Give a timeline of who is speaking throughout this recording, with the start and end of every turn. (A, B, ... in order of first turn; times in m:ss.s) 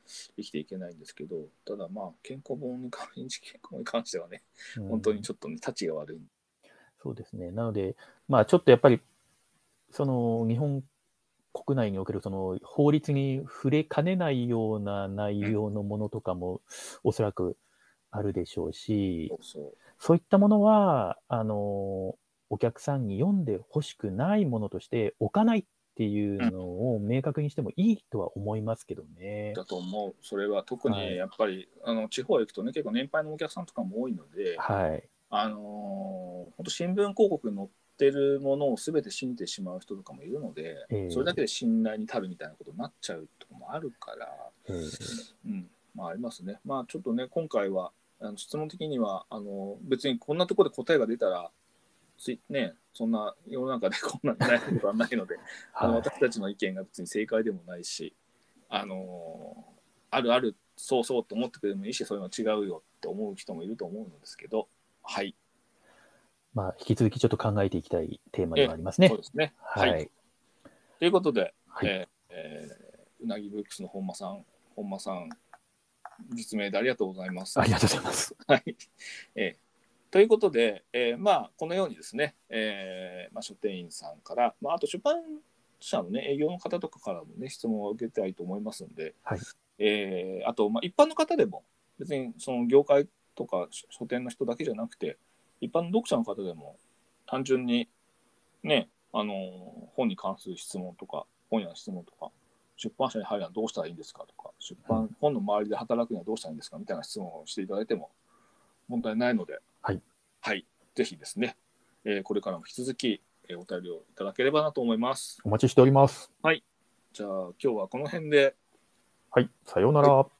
0:00.4-0:06.3 A
0:04.8-0:05.3 B
0:07.0-0:09.0 B
0:09.9-0:10.9 B
0:11.5-0:17.6 B
0:18.1-0:19.3 B
0:19.3-0:19.8 A
0:20.0-0:29.6 B
0:29.5-0:34.6 A
0:30.9-0:31.2 B
0:34.6-0:35.1 B
0:35.3-0:44.5 A
0:40.9-0:41.4 B
0:44.7-0:45.2 B
0:45.4-0:51.5 A
0:52.2-0:58.2 A
0:55.8-0:56.1 B
0:58.7-1:05.4 A
1:06.5-1:10.1 B
1:08.6-1:10.0 A
1:11.0-1:15.4 A
1:16.3-1:17.8 A
1:17.6-1:18.3 B
1:18.5-1:18.8 A
1:20.1-1:29.2 A
1:29.8-1:37.9 A
1:38.6-1:48.1 A
1:48.9-1:49.6 A
1:50.4-1:55.4 A
1:55.4-1:56.3 B
1:57.1-1:58.6 A
1:59.3-2:00.3 B